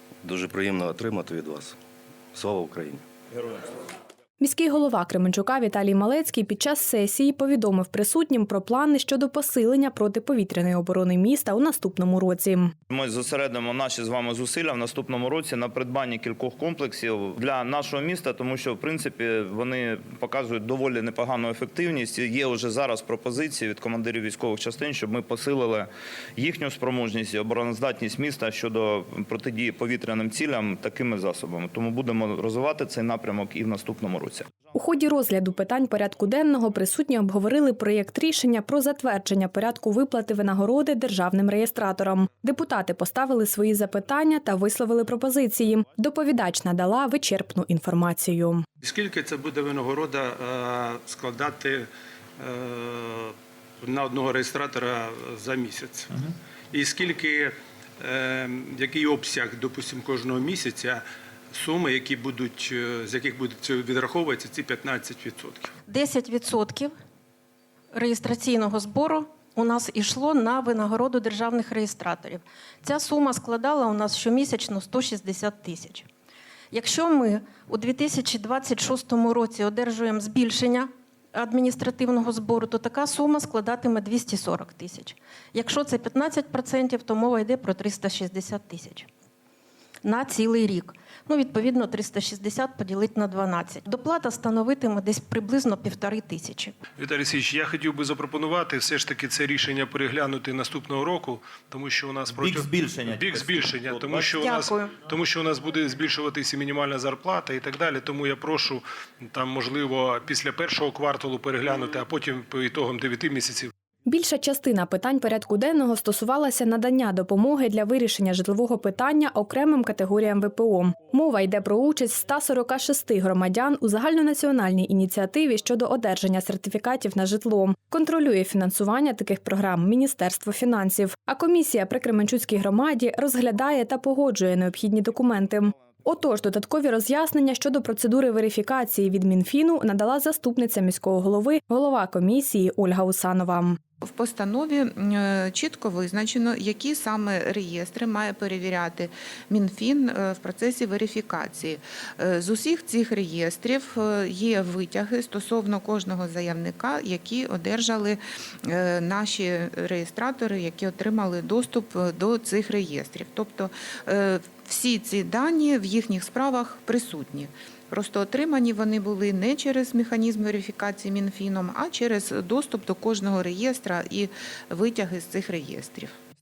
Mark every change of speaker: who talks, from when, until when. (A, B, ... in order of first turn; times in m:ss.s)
0:00.2-0:01.8 A
0:02.3-0:03.0 A
0:04.4-0:12.7 B
0:12.9-0:34.5 C
0:34.7-0:48.6 B
0:48.8-0:56.1 D
0:56.7-1:05.7 D
1:05.9-1:06.9 E
1:07.9-1:16.1 E
1:16.7-1:29.1 E
1:30.0-1:36.7 E
1:37.0-1:53.7 F
1:42.3-1:44.6 C
1:54.0-2:23.8 B
2:24.0-2:56.1 G